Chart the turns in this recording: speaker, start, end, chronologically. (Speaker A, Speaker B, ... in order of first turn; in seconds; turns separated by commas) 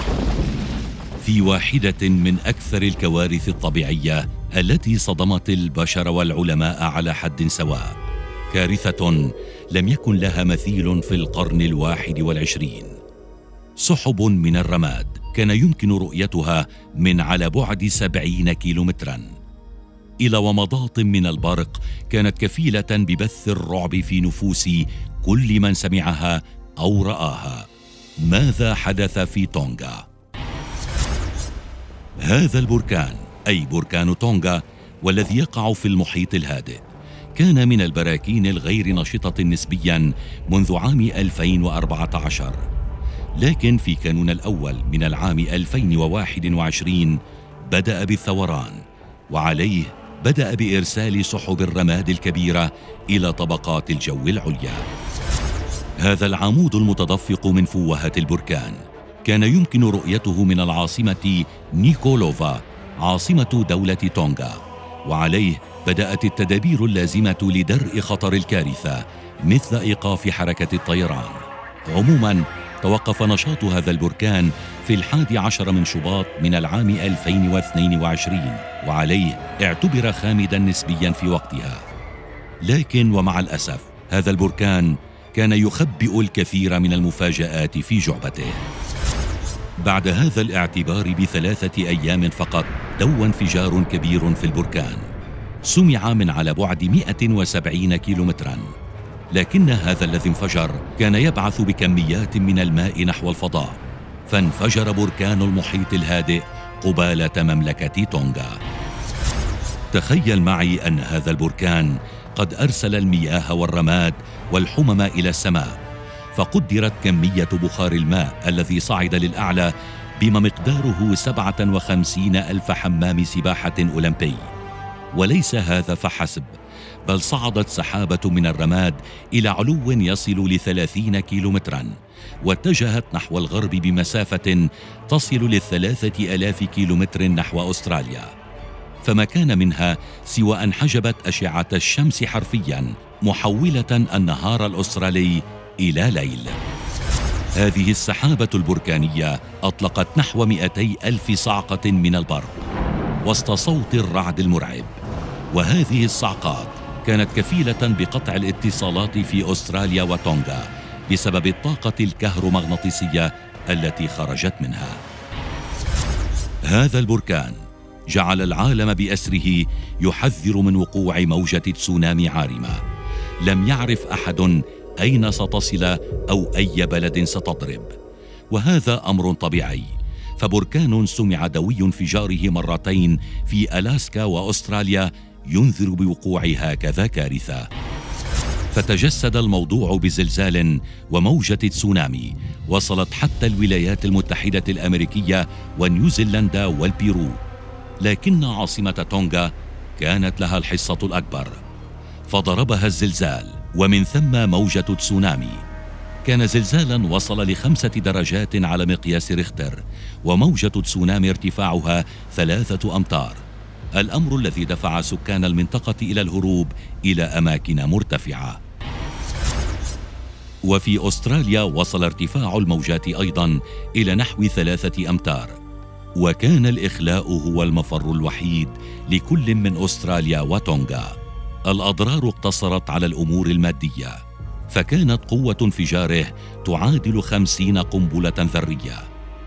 Speaker A: 1.2-8.0, Speaker A: 8.5-13.0, Speaker A: 13.8-19.4, Speaker A: 20.2-27.7, Speaker A: 28.2-30.1, Speaker A: 32.2-36.8, Speaker A: 37.4-42.6, Speaker A: 43.4-54.9, Speaker A: 56.0-81.8, Speaker A: 82.6-88.7, Speaker A: 89.8-95.1, Speaker A: 95.6-98.7, Speaker A: 99.3-108.6, Speaker A: 109.9-115.8, Speaker A: 116.3-124.5, Speaker A: 125.1-138.3, Speaker A: 139.0-146.6, Speaker A: 147.6-152.7, Speaker A: 153.2-154.9, Speaker A: 155.5-165.0, Speaker A: 166.7-172.8, Speaker A: 173.4-177.9, Speaker A: 178.5-187.7, Speaker A: 188.7-197.4, Speaker A: 198.0-201.6, Speaker A: 202.3-205.6, Speaker A: 206.2-213.4, Speaker A: 213.9-218.6, Speaker A: 220.6-225.6, Speaker A: 226.2-231.2, Speaker A: 231.7-239.1